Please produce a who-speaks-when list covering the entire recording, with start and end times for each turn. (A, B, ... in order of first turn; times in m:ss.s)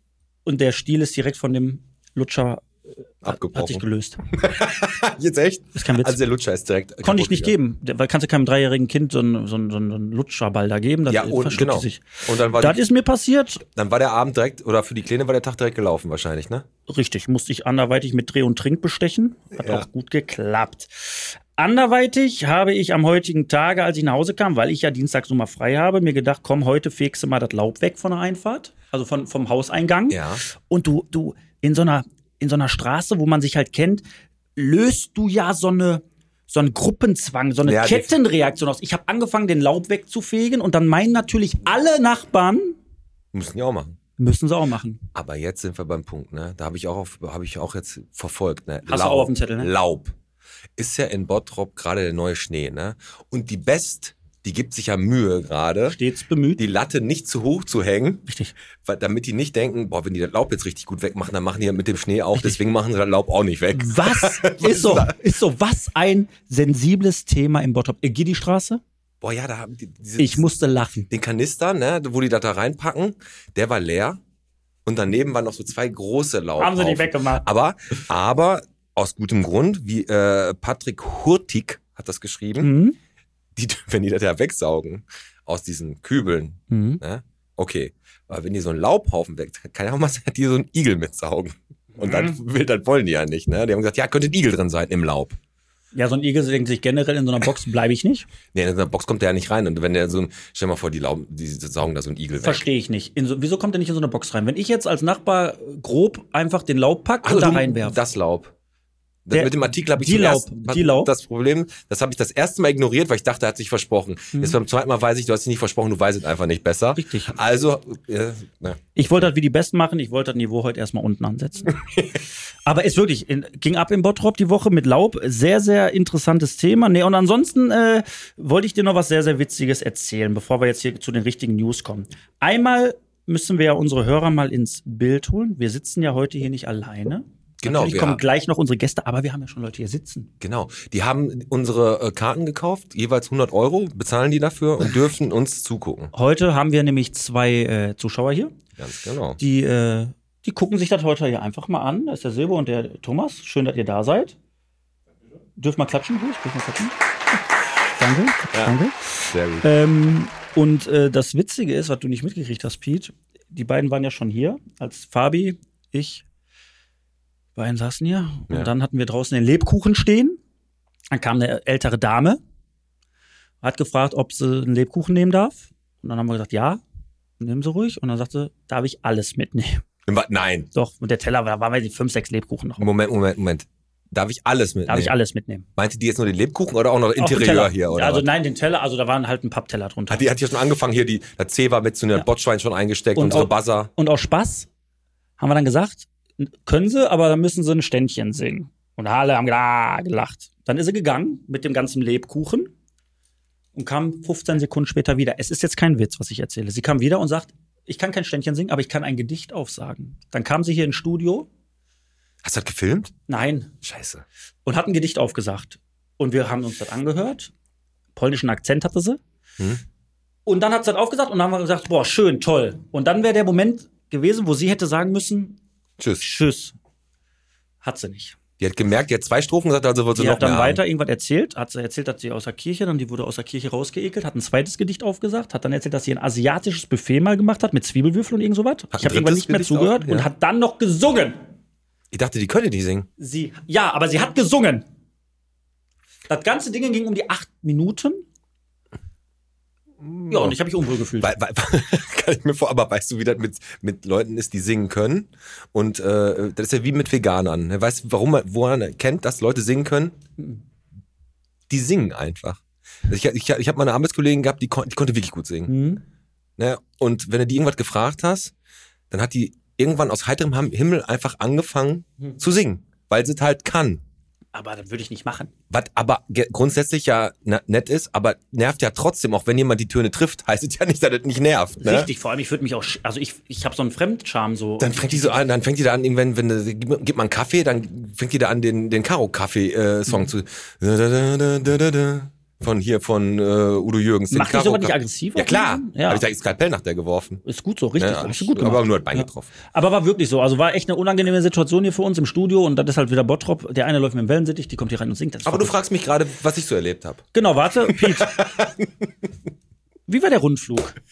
0:00.4-0:02.7 A
0:03.2-0:04.2 A
0:03.2-0:07.5 B
0:05.8-0:06.2 A
0:07.0-0:13.6 A
0:11.1-0:12.8 B
0:13.6-0:16.7 B
0:16.9-0:34.0 A
0:19.6-0:19.9 B
0:30.1-0:30.4 B
0:34.6-0:42.8 A
0:37.6-0:38.1 B
0:43.3-0:44.0 B
0:44.2-0:45.0 A
0:45.1-0:50.2 B
0:48.9-0:49.7 A
0:50.8-0:56.0 B
0:55.9-0:56.6 A
0:56.6-0:58.3 B
0:58.3-0:58.5 A
0:58.8-1:05.2 B
1:03.7-1:08.8 A
1:09.2-1:10.5 B
1:10.2-1:11.1 A
1:11.1-1:14.2 B
1:14.8-1:22.7 B
1:16.6-1:17.4 A
1:22.6-1:23.0 A
1:23.6-1:35.4 B
1:26.7-1:27.0 A
1:32.0-1:32.4 A
1:35.9-1:38.3 A
1:38.5-1:42.7 B
1:42.4-1:48.0 A
1:47.2-1:48.5 B
1:49.3-1:59.2 B
1:49.3-1:51.1 A
1:57.0-1:57.4 A
1:59.0-2:01.8 A
2:01.7-2:02.2 B
2:02.6-2:20.3 A
2:17.6-2:18.2 B
2:20.4-2:26.1 B
2:26.1-2:28.5 A
2:28.8-2:29.4 B
2:29.4-2:34.4 A
2:35.6-2:37.0 A
2:38.0-2:39.0 A
2:39.3-2:39.7 B
2:39.6-2:46.2 A
2:47.6-2:50.4 A
2:51.1-2:52.4 A
2:53.6-2:56.8 A
2:57.4-2:59.8 A
3:00.1-3:00.7 B
3:00.7-3:02.9 A
3:02.8-3:05.2 B
3:04.9-3:05.6 A
3:05.8-3:08.3 B
3:07.2-3:10.2 A
3:10.1-3:13.9 B
3:13.2-3:14.7 A
3:15.4-3:22.7 A
3:23.8-3:31.5 A
3:32.4-3:33.1 B
3:33.3-3:33.7 A
3:33.8-3:34.2 B
3:34.7-3:37.5 A
3:38.2-3:39.2 A
3:39.6-3:39.8 B
3:40.5-3:45.6 A
3:46.0-3:46.2 B
3:46.2-3:46.8 A
3:47.8-3:48.4 A
3:48.6-3:50.8 B
3:50.1-4:01.4 A
3:58.9-4:00.3 B
4:02.1-4:03.1 B
4:03.2-4:04.8 A
4:06.3-4:08.2 A
4:10.0-4:10.6 B
4:10.3-4:11.3 A
4:11.2-4:20.2 B
4:21.7-4:25.8 B
4:25.7-4:26.0 A
4:26.6-4:28.5 B
4:29.1-4:34.0 B
4:34.5-4:35.5 A
4:35.7-4:42.1 B
4:41.8-4:45.4 A
4:44.8-4:57.4 B
4:54.3-4:56.2 A
4:57.4-5:05.8 A
4:58.0-4:59.5 B
5:05.4-5:07.3 B
5:07.3-5:08.3 A
5:07.9-5:09.1 B
5:10.1-5:11.0 A